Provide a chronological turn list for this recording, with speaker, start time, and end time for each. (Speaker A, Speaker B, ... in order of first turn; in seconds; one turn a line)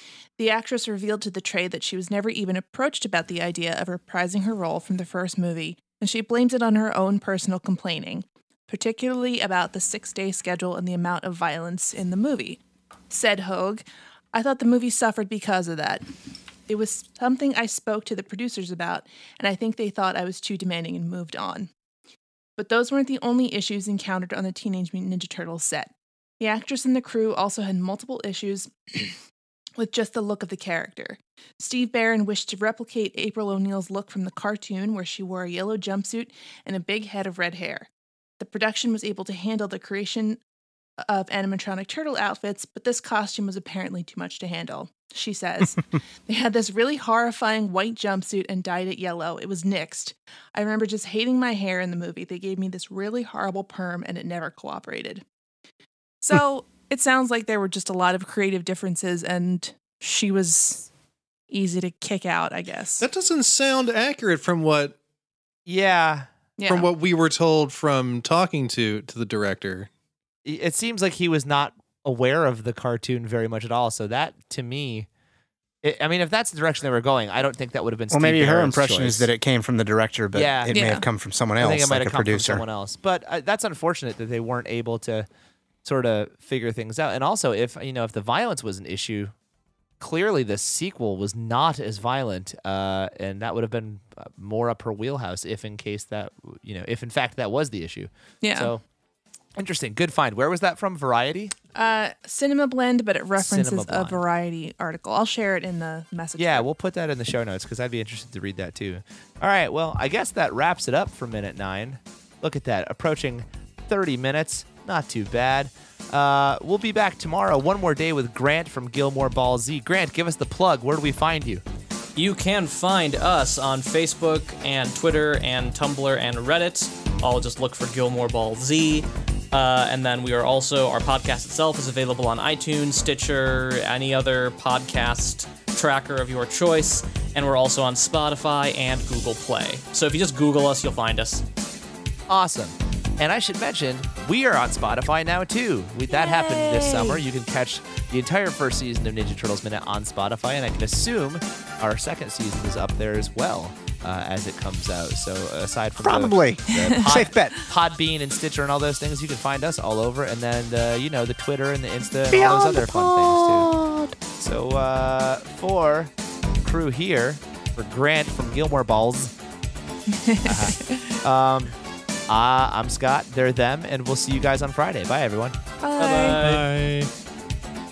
Speaker A: 0.4-16.0
Speaker A: 16.7-21.7
Speaker A: 22.6-29.1
Speaker A: 29.8-37.9
Speaker A: 38.4-40.4
Speaker A: 41.0-55.2
Speaker A: 56.2-60.9
Speaker A: 61.5-63.0
Speaker B: 63.0-65.0
Speaker C: 65.7-66.3
Speaker A: 66.6-66.9
Speaker B: 66.7-69.9
Speaker C: 70.4-75.1
Speaker C: 75.8-79.3
Speaker D: 78.1-82.6
Speaker C: 80.3-81.0
Speaker A: 80.7-81.0
Speaker C: 81.6-85.3
Speaker C: 85.8-89.3
Speaker C: 90.0-98.8
Speaker A: 98.4-98.7
Speaker C: 99.5-101.5
Speaker A: 101.7-106.7
Speaker C: 103.4-104.2
Speaker C: 106.4-121.6
Speaker E: 122.2-141.4
Speaker C: 142.3-163.7
Speaker A: 146.1-147.2
Speaker D: 156.0-157.6
Speaker A: 156.7-157.0
Speaker D: 162.3-164.1
Speaker C: 164.4-166.1
Speaker C: 166.6-169.3
Speaker A: 170.1-171.0
Speaker C: 170.4-171.7
Speaker C: 172.3-175.5
Speaker A: 175.8-176.4
Speaker E: 176.0-176.7
Speaker B: 176.4-177.1